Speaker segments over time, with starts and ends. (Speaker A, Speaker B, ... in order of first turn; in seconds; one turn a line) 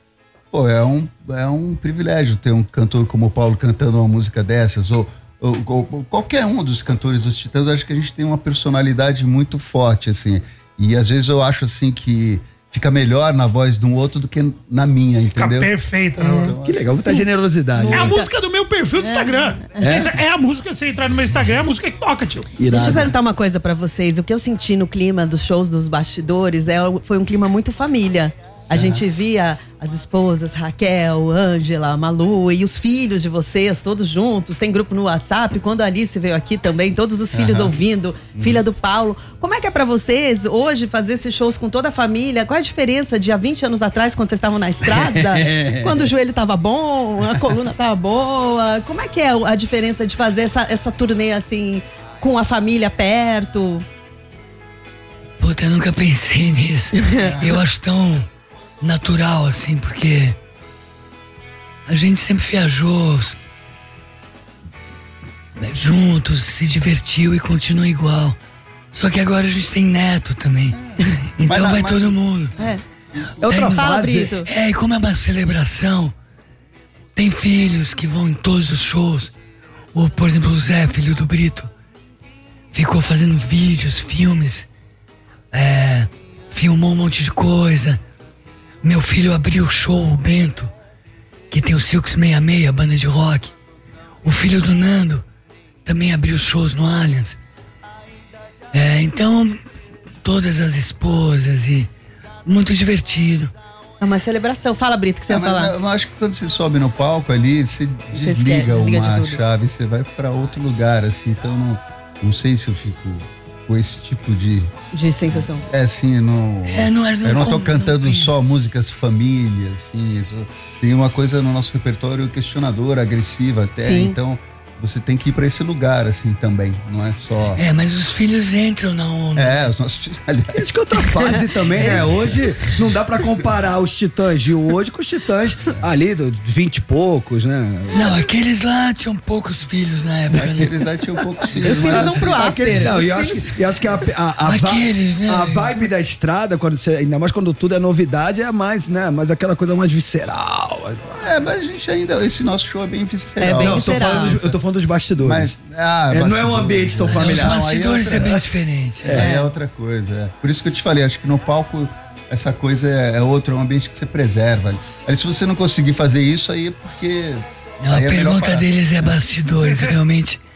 Speaker A: 0.5-15.7
Speaker B: 15.3-16.5
Speaker C: 16.2-16.5
Speaker A: 16.4-16.9
Speaker D: 16.6-18.2
Speaker C: 17.8-18.3
Speaker B: 17.9-22.5
Speaker C: 19.0-19.7
Speaker D: 19.8-20.2
Speaker D: 22.6-23.1
Speaker C: 22.7-53.8
Speaker A: 28.7-29.0
Speaker A: 37.3-37.7
Speaker D: 44.9-46.1
Speaker E: 55.4-58.3
Speaker C: 57.0-57.4
Speaker A: 57.3-57.6
Speaker E: 58.8-60.4
Speaker E: 61.9-63.4
Speaker E: 65.6-68.4
Speaker E: 68.9-70.8
Speaker E: 71.4-72.5
Speaker A: 71.4-72.2
Speaker A: 73.1-73.5
Speaker D: 73.4-74.3
Speaker E: 73.5-73.8
Speaker C: 73.6-74.5
Speaker E: 74.4-76.1
Speaker E: 77.2-79.3
Speaker E: 79.9-81.7
Speaker E: 82.7-84.7
Speaker E: 85.5-88.0
Speaker E: 88.8-90.7
Speaker E: 91.5-93.5
Speaker E: 94.2-95.2
Speaker E: 95.8-97.4
Speaker E: 98.7-99.6
Speaker E: 100.2-101.9
Speaker E: 102.5-103.5
Speaker C: 104.0-105.7
Speaker A: 105.3-114.7
Speaker C: 108.1-109.4
Speaker C: 114.9-115.7
Speaker A: 115.3-127.6
Speaker E: 116.7-118.3
Speaker C: 123.8-124.1
Speaker E: 127.5-129.6
Speaker A: 129.3-130.8
Speaker D: 130.5-138.1
Speaker C: 131.2-132.1
Speaker A: 131.6-132.4
Speaker E: 137.9-140.7
Speaker A: 140.3-142.9
Speaker C: 141.5-143.6
Speaker D: 141.5-151.2
Speaker E: 144.4-145.7
Speaker A: 151.2-154.6
Speaker C: 153.4-154.4
Speaker D: 153.6-155.5
Speaker A: 155.2-158.4
Speaker D: 156.1-157.6
Speaker E: 157.1-159.2
Speaker A: 159.0-169.2
Speaker C: 159.2-159.5
Speaker E: 167.8-170.4
Speaker B: 169.6-169.9